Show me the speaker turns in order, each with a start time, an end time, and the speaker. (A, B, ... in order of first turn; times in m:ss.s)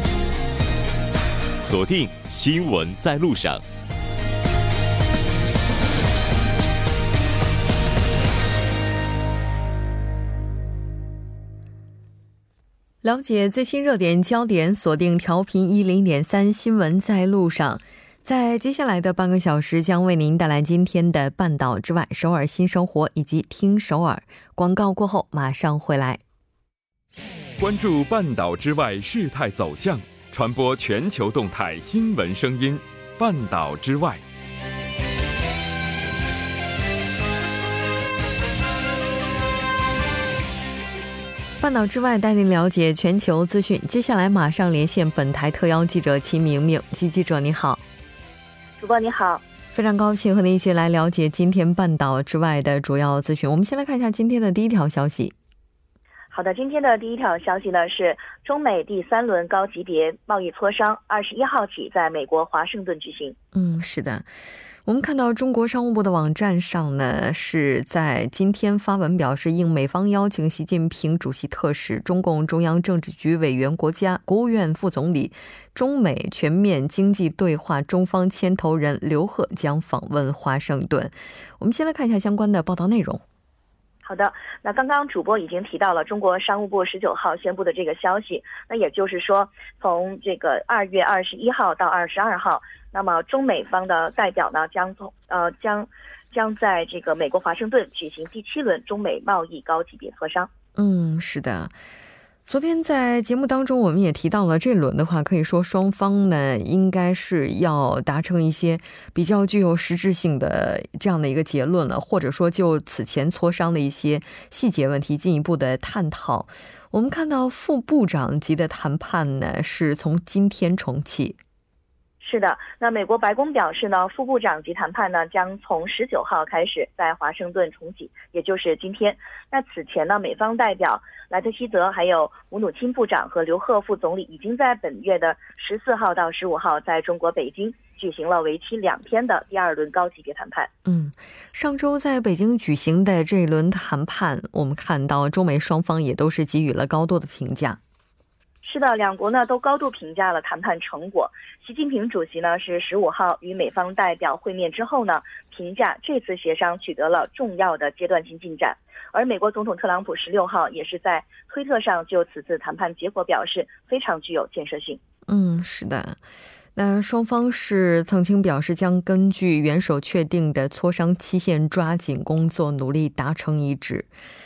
0:01.6-0:03.6 A
0:13.0-0:26.2 B
0:27.6-0:34.2 C
0:41.6-0:47.8 B
0:48.8-0:49.4 D
0:49.7-0:55.3 B
0:56.3-1:03.4 D
1:03.5-1:04.3 B
1:04.9-1:23.2 B
1:24.0-1:40.5 D
1:40.8-1:41.7 B
1:42.5-2:01.4 B
2:02.2-2:20.7 D
2:20.9-2:27.8 B
2:28.6-2:45.0 D
2:45.3-2:46.2 B
2:46.8-2:54.1 B